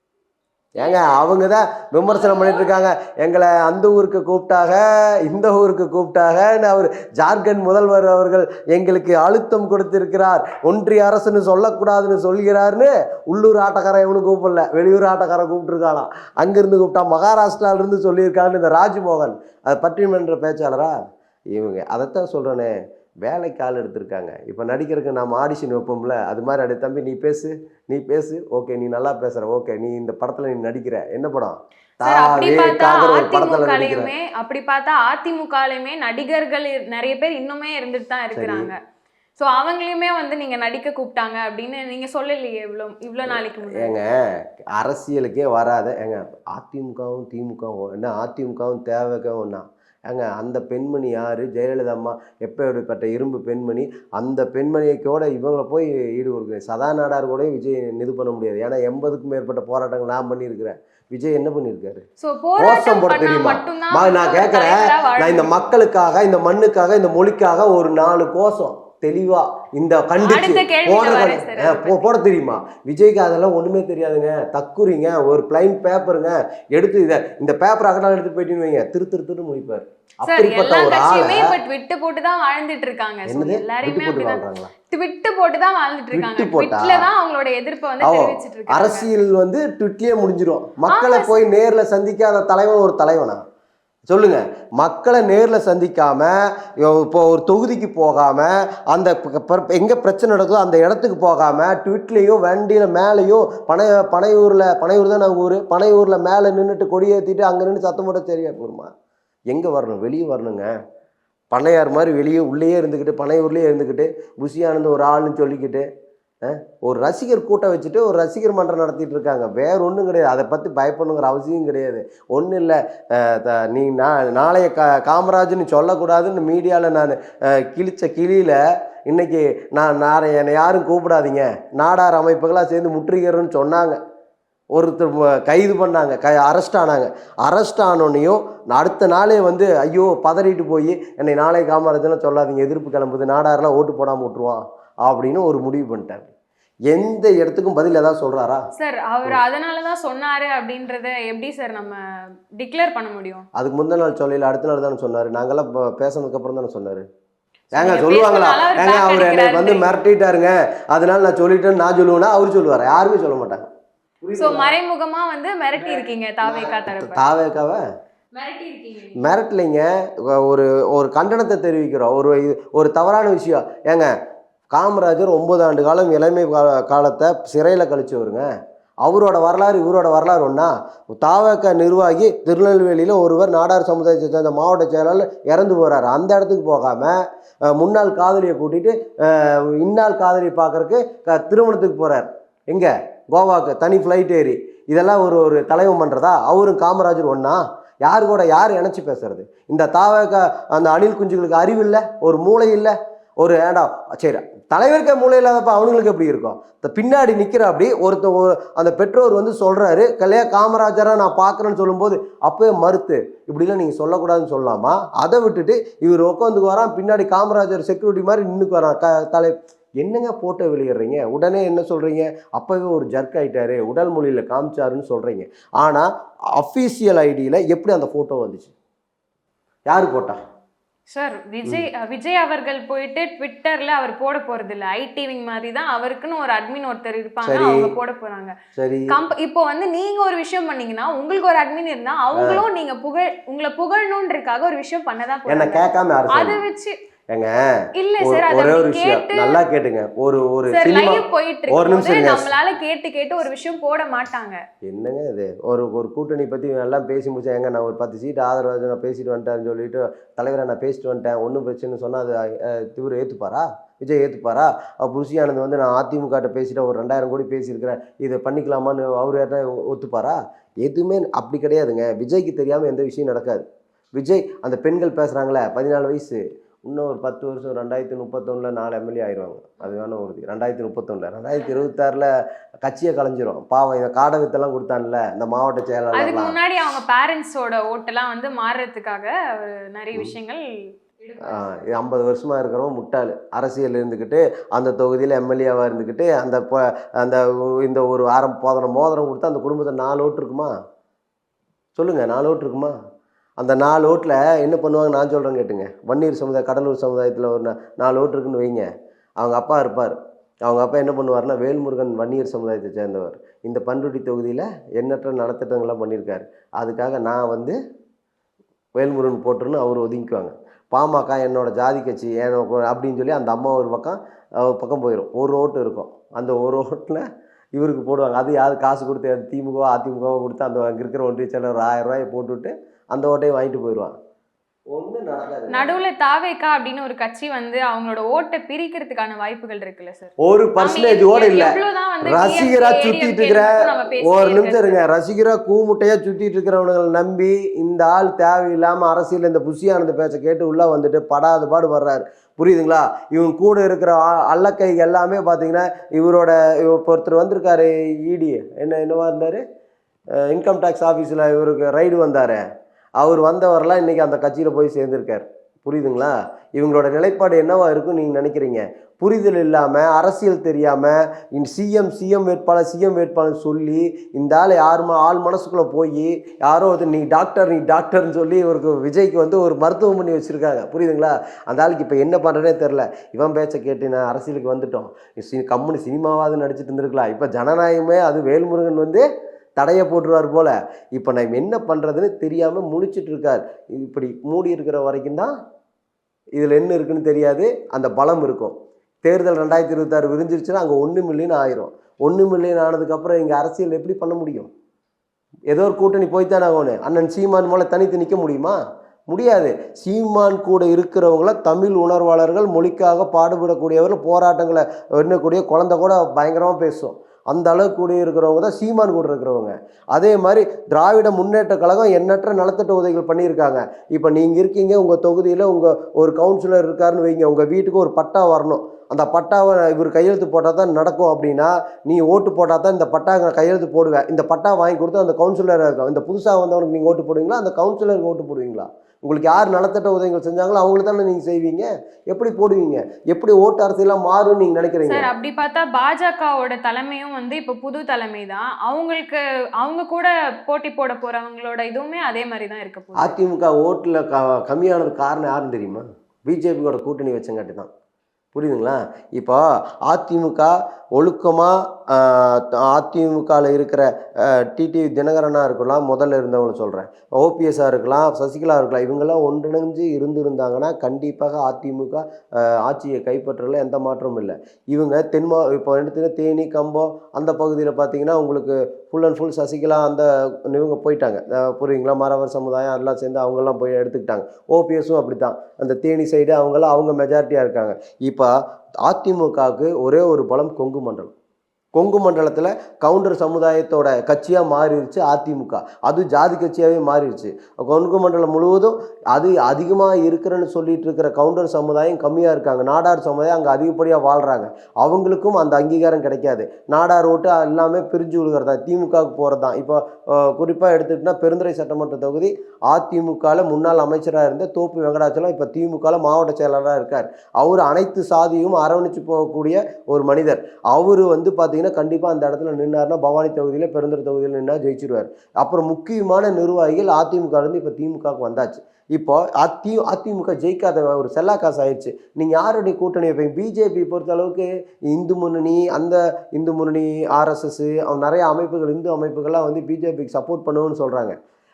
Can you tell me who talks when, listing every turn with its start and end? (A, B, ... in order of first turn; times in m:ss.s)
0:00.8-0:20.9 A
0:00.8-0:01.2 B
0:02.1-0:02.7 B
0:21.5-0:22.7 A
0:23.2-0:34.1 A
0:32.0-0:38.8 B
0:38.3-0:38.7 A
0:39.4-0:44.1 B
0:43.2-1:02.0 A
1:02.2-1:05.5 B
1:02.6-1:21.6 A
1:10.2-1:12.1 B
1:20.2-1:29.1 B
1:23.2-1:24.7 A
1:26.1-1:27.1 A
1:28.0-1:33.4 A
1:30.9-1:31.5 B
1:34.1-1:48.9 A
1:49.5-1:50.7 A
1:51.5-1:55.8 A
1:56.4-2:14.0 A
2:14.7-2:26.3 A
2:26.9-2:28.6 A
2:28.7-2:32.0 B
2:32.6-2:33.4 B
2:33.5-2:37.0 A
2:37.7-2:43.6 A
2:37.8-2:40.0 B
2:44.2-2:44.7 A
2:44.4-2:47.2 B
2:45.8-2:47.8 A
2:48.3-2:49.3 B
2:49.2-2:54.1 A
2:54.7-2:58.5 A
2:59.0-3:07.2 A
3:07.7-3:48.7 A
3:49.9-3:50.4 A
3:51.1-3:58.5 B
3:57.4-3:57.9 A
3:58.7-3:59.2 A
3:59.1-4:06.9 B
4:02.3-4:02.6 A
4:05.5-4:06.6 A
4:07.3-4:07.6 A
4:08.0-4:09.6 B
4:08.2-4:12.5 A
4:10.7-4:14.6 B
4:14.8-4:33.6 A
4:34.1-4:42.3 A
4:41.5-4:41.8 B
4:42.8-4:46.6 A
4:46.1-4:50.6 B
4:51.2-4:52.0 B
4:51.5-5:00.7 A
5:02.0-5:02.9 A
5:03.6-5:08.9 A
5:09.4-5:17.8 A
5:19.0-5:27.2 A
5:27.8-5:34.1 A
5:34.9-5:35.9 A
5:35.7-5:45.0 B
5:40.4-5:59.6 A
6:00.4-6:02.6 A
6:03.2-6:29.2 A
6:29.8-6:35.5 A
6:36.6-6:44.7 A
6:45.7-7:25.3 A
7:25.1-7:33.4 B
7:33.2-7:37.9 A
7:38.5-8:08.5 A
8:09.0-8:11.3 A
8:11.9-9:01.4 A